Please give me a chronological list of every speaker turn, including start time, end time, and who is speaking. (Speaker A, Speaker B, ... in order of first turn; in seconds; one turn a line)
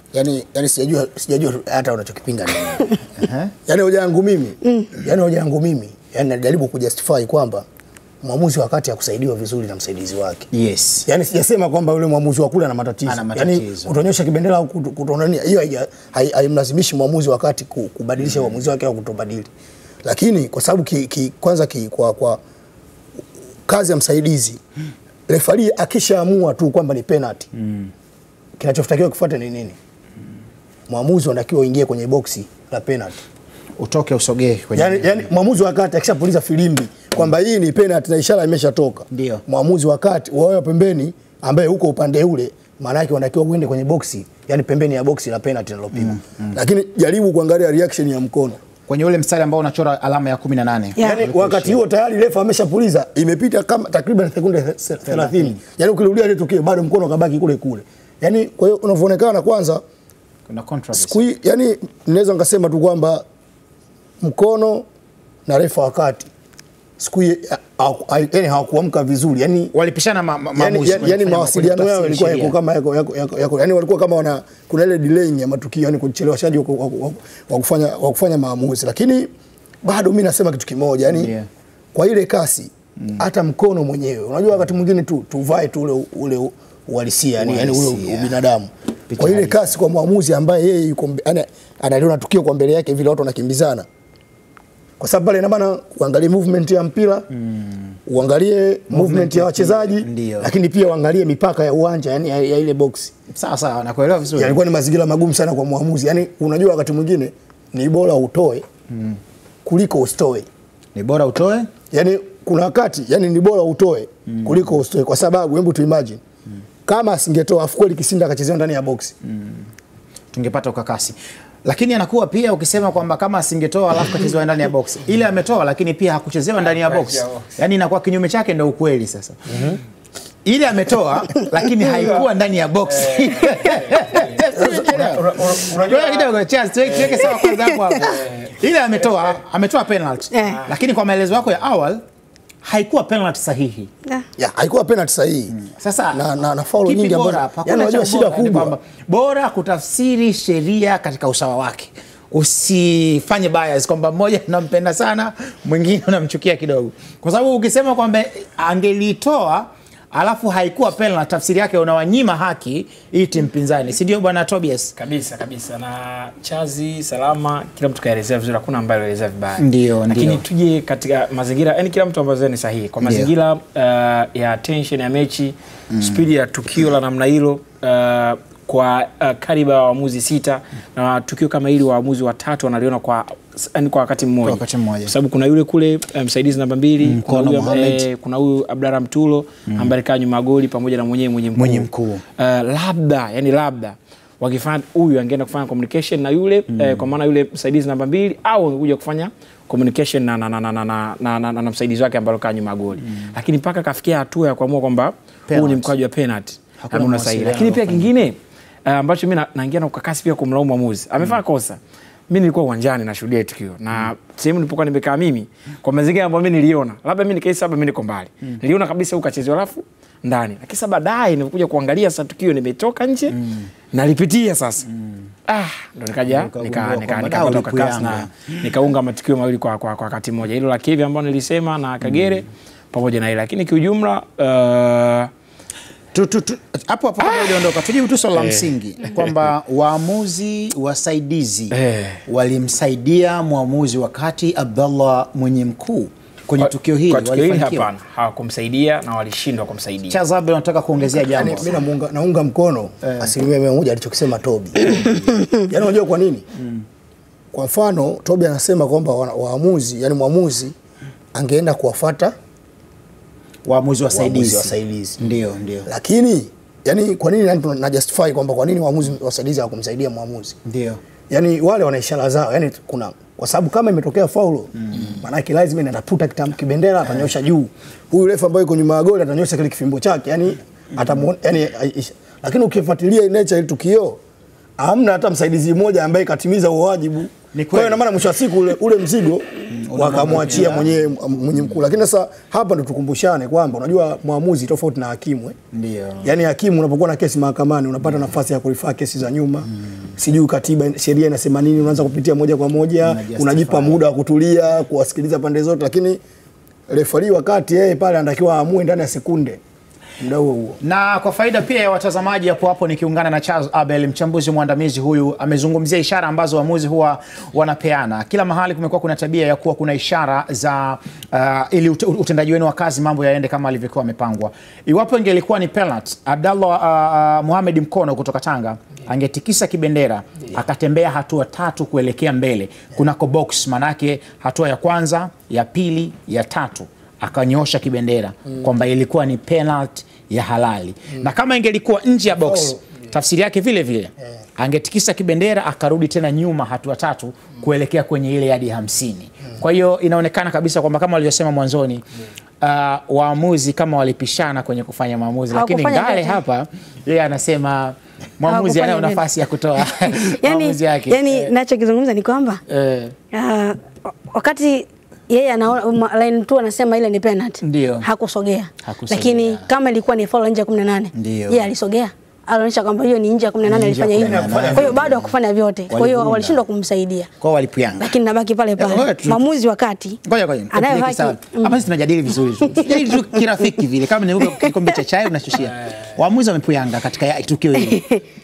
Speaker A: 0.1-2.9
Speaker B: 3.2-3.5
Speaker A: 3.7-7.7
Speaker C: 4.6-4.9
Speaker A: 8.2-10.5
Speaker B: 10.5-11.1
Speaker A: 11.1-19.5
Speaker B: 13.1-14.0
Speaker A: 20.0-22.4
Speaker A: 23.7-24.6
Speaker A: 25.3-27.5
Speaker B: 27.6-27.9
Speaker A: 28.6-29.8
Speaker A: 30.9-33.2
Speaker B: 33.8-35.3
Speaker A: 34.8-48.6
Speaker B: 39.1-39.4
Speaker B: 46.0-46.6
Speaker B: 48.9-51.8
Speaker C: 51.0-51.2
Speaker A: 51.0-59.8
Speaker B: 55.1-55.6
Speaker B: 60.5-61.2
Speaker A: 60.9-63.2
Speaker A: 64.2-64.8
Speaker A: 65.5-66.3
Speaker A: 67.0-69.7
Speaker B: 69.7-72.5
Speaker A: 70.6-79.3
Speaker A: 79.8-81.3
Speaker B: 81.1-81.5
Speaker A: 81.9-93.8
Speaker B: 83.0-83.2
Speaker B: 87.4-88.3
Speaker B: 89.1-89.7
Speaker A: 95.0-97.3
Speaker B: 97.4-98.0
Speaker A: 98.1-103.1
Speaker B: 98.9-100.5
Speaker B: 103.3-104.6
Speaker A: 104.4-108.7
Speaker B: 108.9-109.2
Speaker A: 109.7-110.5
Speaker B: 111.0-111.7
Speaker A: 111.9-116.2
Speaker B: 114.3-114.6
Speaker A: 116.9-119.1
Speaker B: 119.2-119.6
Speaker B: 120.3-129.8
Speaker D: 126.6-127.5
Speaker B: 130.4-142.0
Speaker D: 131.8-132.3
Speaker D: 132.9-136.3
Speaker D: 136.8-137.2
Speaker D: 138.0-138.6
Speaker C: 140.3-140.6
Speaker D: 140.4-140.8
Speaker B: 142.6-143.9
Speaker A: 144.4-145.6
Speaker B: 145.5-146.2
Speaker A: 146.1-148.8
Speaker B: 146.8-164.9
Speaker D: 165.0-223.4
Speaker B: 169.6-170.4
Speaker B: 173.0-173.3
Speaker B: 175.9-176.2
Speaker B: 184.4-185.1
Speaker B: 187.0-188.0
Speaker B: 191.6-192.2
Speaker B: 196.7-197.0
Speaker B: 205.5-205.9
Speaker B: 206.8-208.1
Speaker B: 223.4-223.7
Speaker D: 223.9-224.9
Speaker D: 225.5-235.3
Speaker B: 226.3-228.5
Speaker B: 236.1-241.8
Speaker D: 238.3-238.7
Speaker D: 241.7-242.2
Speaker B: 242.3-247.9
Speaker D: 246.6-250.2
Speaker B: 250.1-251.7
Speaker A: 251.3-256.5
Speaker B: 253.0-253.3
Speaker B: 254.8-255.5
Speaker B: 256.6-256.8
Speaker A: 257.5-260.7
Speaker A: 261.3-262.3
Speaker B: 263.7-265.9
Speaker A: 264.1-265.2
Speaker A: 265.9-270.6
Speaker B: 270.7-271.0
Speaker A: 271.3-284.2
Speaker B: 274.8-275.2
Speaker A: 284.8-295.6
Speaker B: 287.5-288.1
Speaker B: 289.7-290.9
Speaker B: 295.7-296.3
Speaker A: 296.2-306.2
Speaker B: 303.0-304.0
Speaker A: 306.9-309.6
Speaker A: 310.2-310.8
Speaker B: 310.8-352.1
Speaker A: 342.4-342.7
Speaker B: 352.6-361.5
Speaker C: 355.5-356.4
Speaker C: 358.5-359.2
Speaker C: 360.1-362.6
Speaker B: 362.7-363.1
Speaker C: 363.3-377.3
Speaker B: 367.6-368.1
Speaker B: 368.8-369.6
Speaker B: 371.1-371.7
Speaker B: 373.6-375.3
Speaker A: 374.2-375.1
Speaker B: 375.9-376.6
Speaker B: 377.4-378.1
Speaker C: 378.0-380.2
Speaker B: 378.8-379.4
Speaker B: 380.2-388.0
Speaker C: 380.7-381.7
Speaker C: 382.7-383.2
Speaker C: 387.9-388.2